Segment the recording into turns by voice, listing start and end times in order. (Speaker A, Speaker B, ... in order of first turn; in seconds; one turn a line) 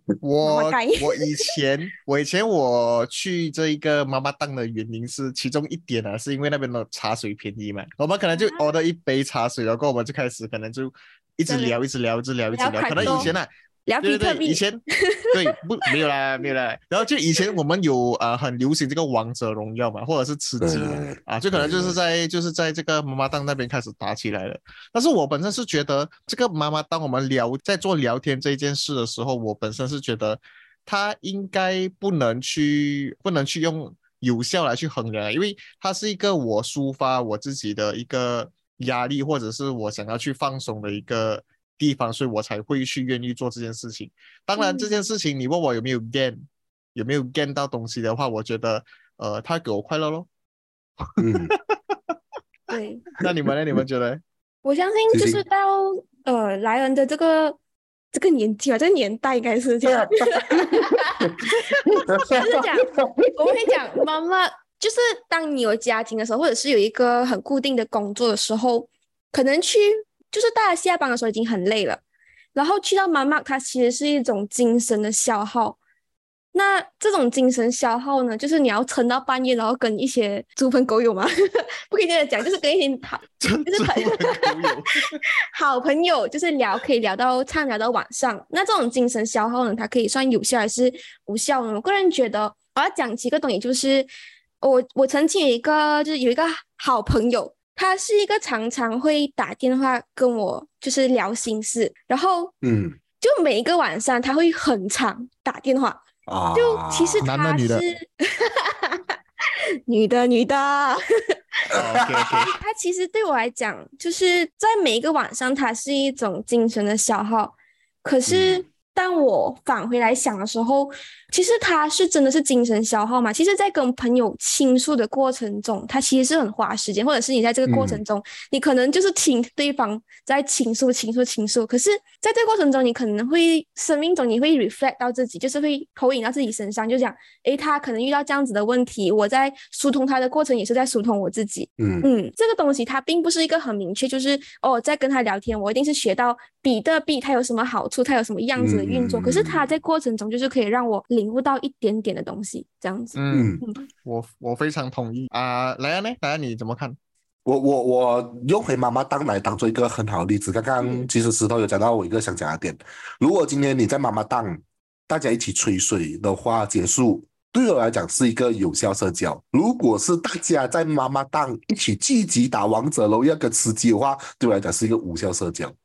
Speaker A: 0.2-13.5
Speaker B: 0.4-1.5
Speaker B: 8.3-8.6
Speaker B: 11.5-11.8
Speaker B: 12.5-13.3
Speaker C: 12.9-13.4
Speaker B: 13.9-15.5
Speaker A: 14.0-46.4
Speaker C: 20.6-22.0
Speaker B: 44.6-45.0
Speaker A: 46.9-50.3
Speaker C: 51.2-51.5
Speaker A: 51.5-52.0
Speaker B: 52.7-53.2
Speaker A: 53.2-54.2
Speaker B: 54.6-57.6
Speaker C: 55.1-55.4
Speaker B: 58.1-72.0
Speaker C: 59.9-63.3
Speaker B: 72.5-75.8
Speaker B: 76.5-84.8
Speaker A: 83.4-85.2
Speaker B: 85.5-94.1
Speaker B: 94.6-102.5
Speaker C: 102.6-103.0
Speaker B: 103.2-106.0
Speaker C: 106.2-107.3
Speaker B: 106.5-109.2
Speaker A: 107.2-107.8
Speaker B: 109.9-111.0
Speaker C: 111.7-112.5
Speaker A: 111.8-112.5
Speaker B: 112.3-153.8
Speaker C: 118.3-118.6
Speaker C: 127.7-128.0
Speaker C: 141.8-142.1
Speaker C: 148.6-149.7
Speaker A: 153.1-156.9
Speaker C: 153.3-153.6
Speaker C: 157.4-175.7
Speaker B: 160.8-161.1